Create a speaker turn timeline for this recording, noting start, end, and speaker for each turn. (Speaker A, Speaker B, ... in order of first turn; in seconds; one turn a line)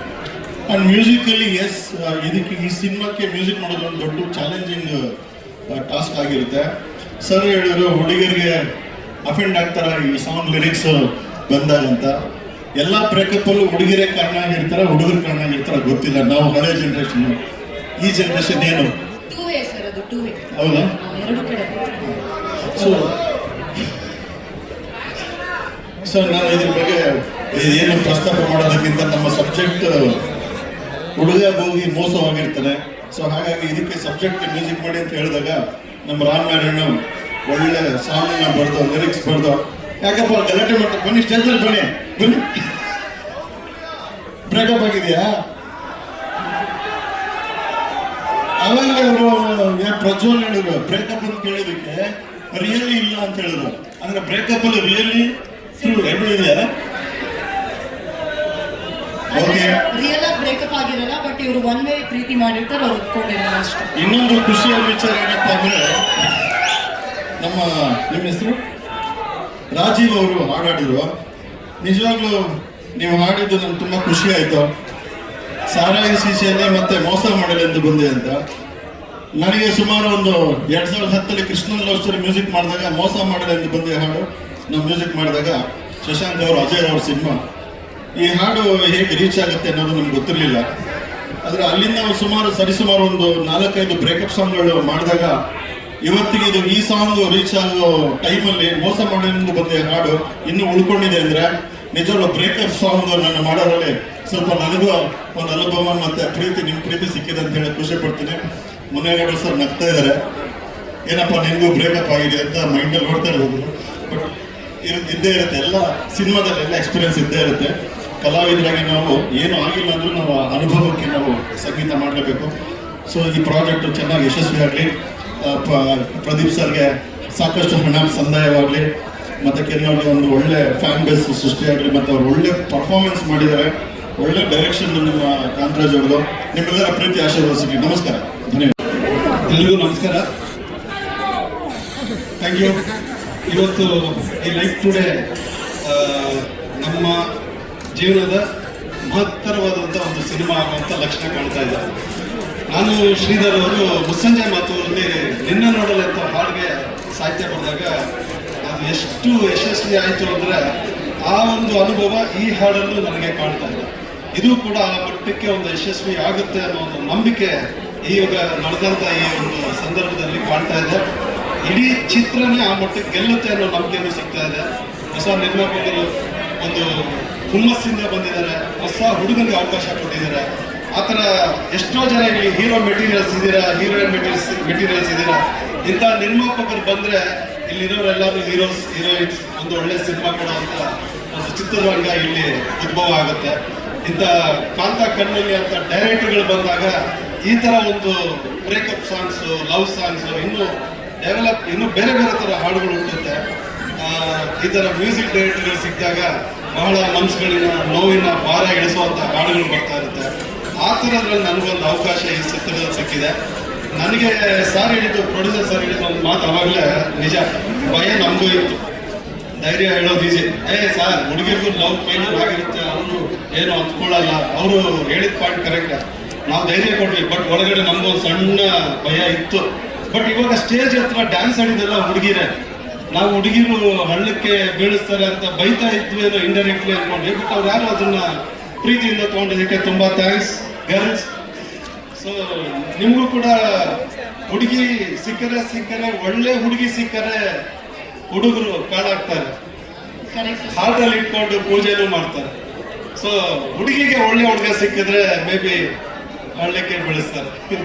Speaker A: 0.7-5.1
Speaker A: 5.7-6.7
Speaker A: 7.2-8.6
Speaker A: 9.2-12.1
Speaker A: 12.8-17.4
Speaker A: 18.0-18.9
Speaker B: 19.3-20.4
Speaker A: 20.5-20.9
Speaker B: 21.1-21.8
Speaker A: 22.0-23.1
Speaker A: 26.0-30.2
Speaker A: 31.2-37.0
Speaker A: 37.5-42.5
Speaker A: 44.5-45.4
Speaker A: 48.6-55.3
Speaker A: 55.8-56.7
Speaker B: 55.8-56.1
Speaker B: 59.3-63.9
Speaker A: 59.3-59.8
Speaker A: 64.0-66.3
Speaker A: 67.4-68.6
Speaker A: 69.7-71.1
Speaker A: 71.8-72.4
Speaker A: 73.0-74.7
Speaker A: 75.7-78.4
Speaker A: 79.4-87.4
Speaker A: 88.2-90.7
Speaker A: 91.4-95.3
Speaker A: 96.0-108.4
Speaker A: 108.9-110.2
Speaker A: 111.1-114.3
Speaker A: 114.8-122.5
Speaker A: 123.1-128.9
Speaker A: 129.4-138.8
Speaker C: 139.5-140.3
Speaker C: 142.4-142.8
Speaker C: 143.5-145.1
Speaker C: 145.8-147.2
Speaker C: 147.9-148.4
Speaker C: 149.1-151.9
Speaker C: 152.7-157.9
Speaker C: 158.6-160.7
Speaker C: 161.2-167.5
Speaker C: 168.1-171.0
Speaker C: 171.6-176.1
Speaker C: 176.6-196.9
Speaker C: 197.5-200.7
Speaker C: 201.2-203.4
Speaker C: 204.0-210.3
Speaker C: 210.8-213.3
Speaker C: 213.9-218.8
Speaker C: 219.6-232.5
Speaker C: 233.1-238.3
Speaker C: 238.8-241.3
Speaker C: 242.2-247.4
Speaker C: 248.3-249.5
Speaker B: 250.3-250.7
Speaker C: 250.7-252.5
Speaker C: 253.2-255.9
Speaker C: 256.6-257.6